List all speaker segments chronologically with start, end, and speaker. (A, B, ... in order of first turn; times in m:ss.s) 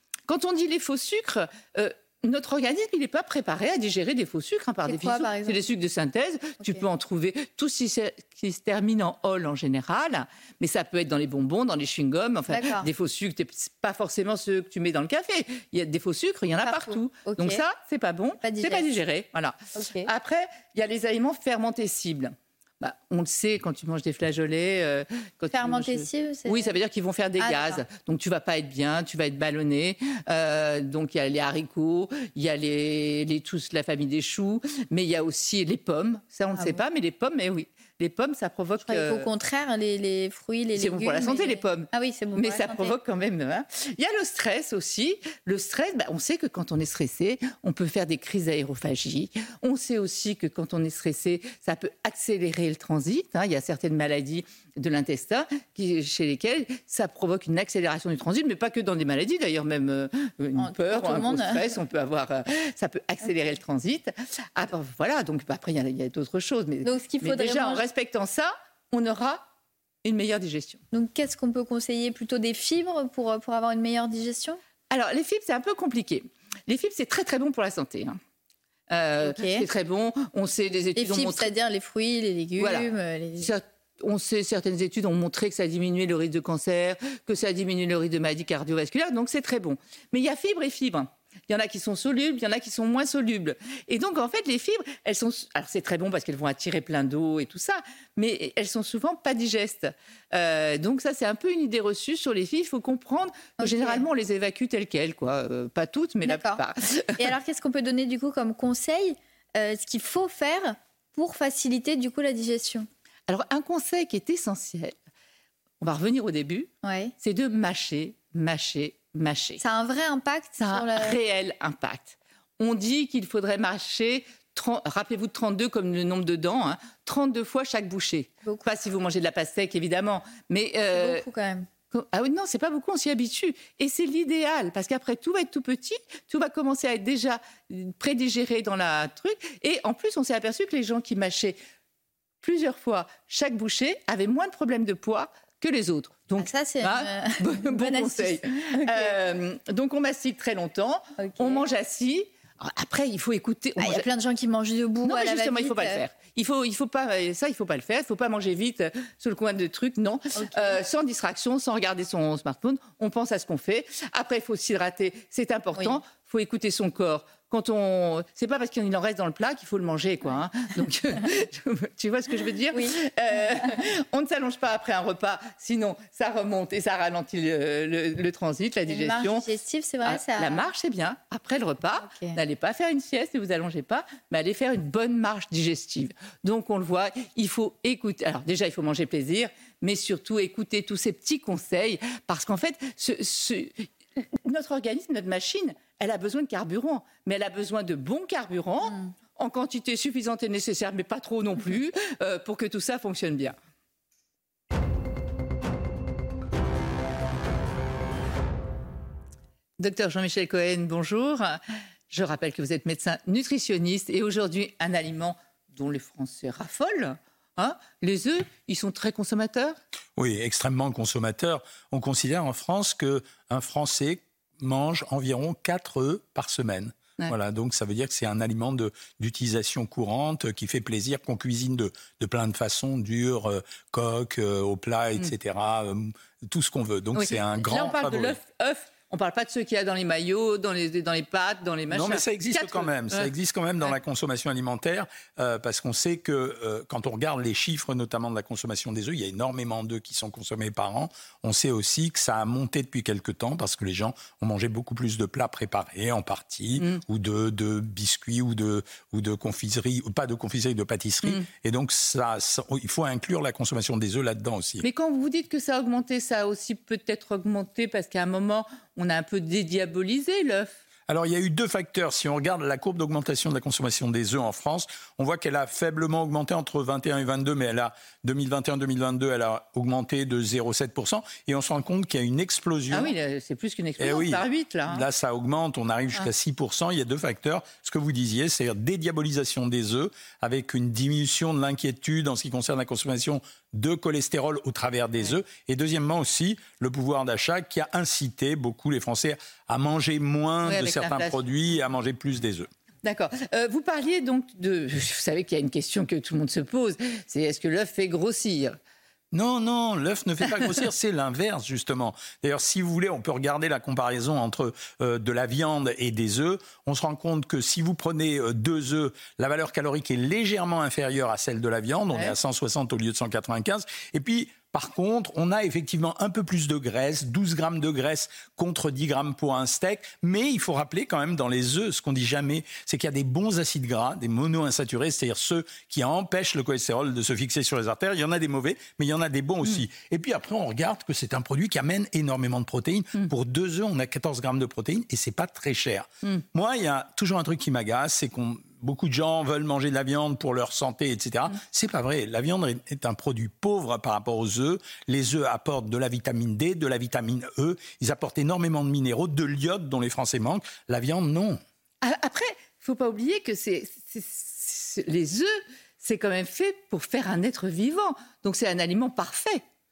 0:00.3-0:39.3 A
0:04.9-0:05.6 B
0:12.5-0:12.9 B
0:16.6-0:17.6 B
0:18.4-0:19.0 B
0:19.8-0:20.1 B
0:25.5-0:26.7 B
0:27.4-0:27.8 B
0:36.6-0:36.8 B
0:38.8-0:43.0 B
0:40.8-1:09.5 A
1:00.6-1:01.7 B
1:06.8-1:07.8 B
1:10.0-1:10.8 A
1:10.9-1:14.6 B
1:14.9-1:18.2 A
1:18.9-1:21.5 A
1:19.2-1:19.6 B
1:21.0-1:23.5 B
1:22.6-1:47.3 A
1:43.6-1:44.1 B
1:46.2-1:46.6 B
1:47.2-1:52.9 B
1:53.3-1:55.0 A
1:55.8-1:59.6 A
1:56.8-1:57.1 B
1:59.6-2:01.2 B
2:00.6-2:11.3 A
2:08.4-2:08.7 B
2:10.9-2:11.7 B
2:11.9-2:21.6 A
2:22.4-2:34.1 A
2:26.4-2:29.2 B
2:31.2-2:31.6 B
2:33.8-2:36.0 B
2:35.0-2:59.5 A
2:40.4-2:40.8 B
2:58.9-3:00.7 B
3:00.0-3:23.6 A
3:02.0-3:02.4 B
3:29.8-3:31.6 A
3:32.1-3:39.8 A
3:40.2-3:58.4 C
3:57.2-4:03.3 A
4:01.9-4:24.9 C
4:21.2-4:21.5 A
4:24.8-4:30.7 A
4:31.1-4:43.1 C
4:42.9-4:45.0 A
4:44.0-5:02.7 C
5:00.6-5:01.4 A
5:03.0-5:08.8 A
5:09.3-6:01.6 C
5:22.1-5:22.4 A
6:02.0-6:09.6 A